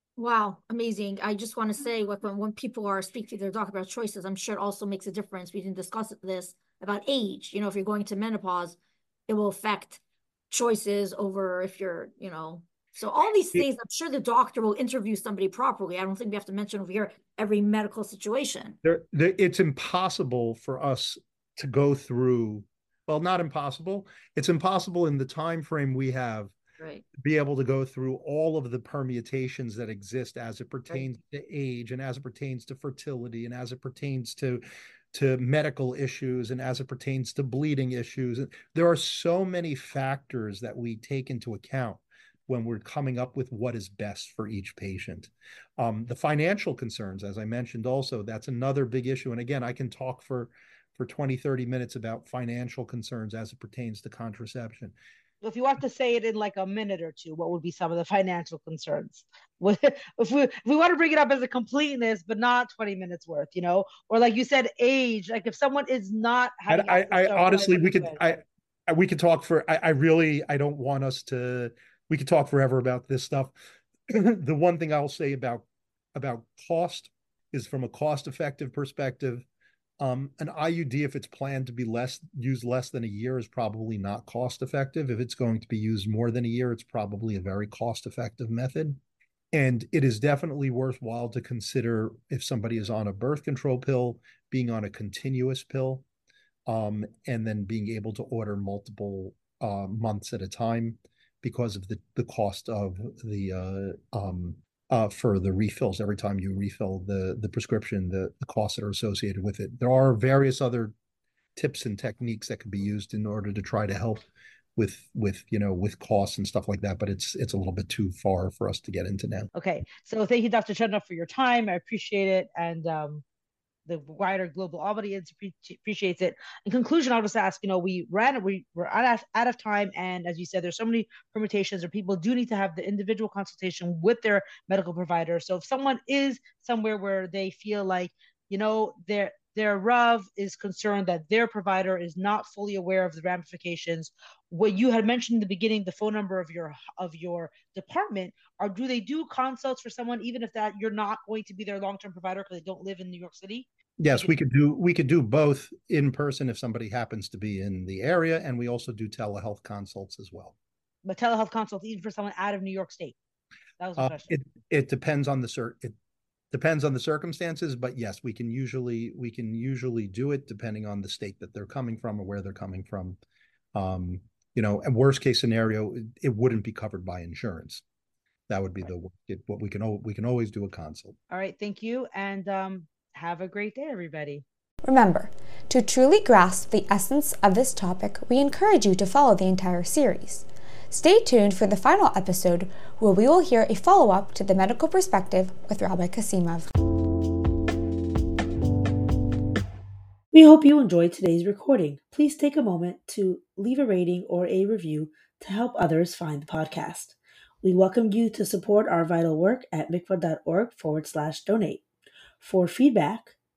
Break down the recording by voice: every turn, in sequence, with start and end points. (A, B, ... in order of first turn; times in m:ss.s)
0:00.2-0:18.8 A
0:18.8-0:26.5 B
0:26.8-0:27.0 A
0:27.2-0:34.6 B
0:35.1-0:55.0 B
0:55.4-1:08.2 C
1:06.7-1:13.6 B
1:14.1-1:19.5 B
1:20.0-1:29.0 B
1:29.5-1:36.0 B
1:36.7-1:51.0 B
1:51.6-1:54.2 B
1:54.8-1:59.5 B
1:59.6-2:03.2 C
2:03.9-2:33.7 C
2:34.0-2:40.6 B
2:41.0-2:43.2 C
2:43.8-2:44.3 C
2:44.0-2:46.0 B
2:46.5-2:53.2 B
2:53.8-2:57.8 B
2:58.5-3:01.2 B
3:01.3-3:04.4 C
3:04.8-3:16.7 D
3:20.3-3:31.8 E
3:32.4-3:33.4 E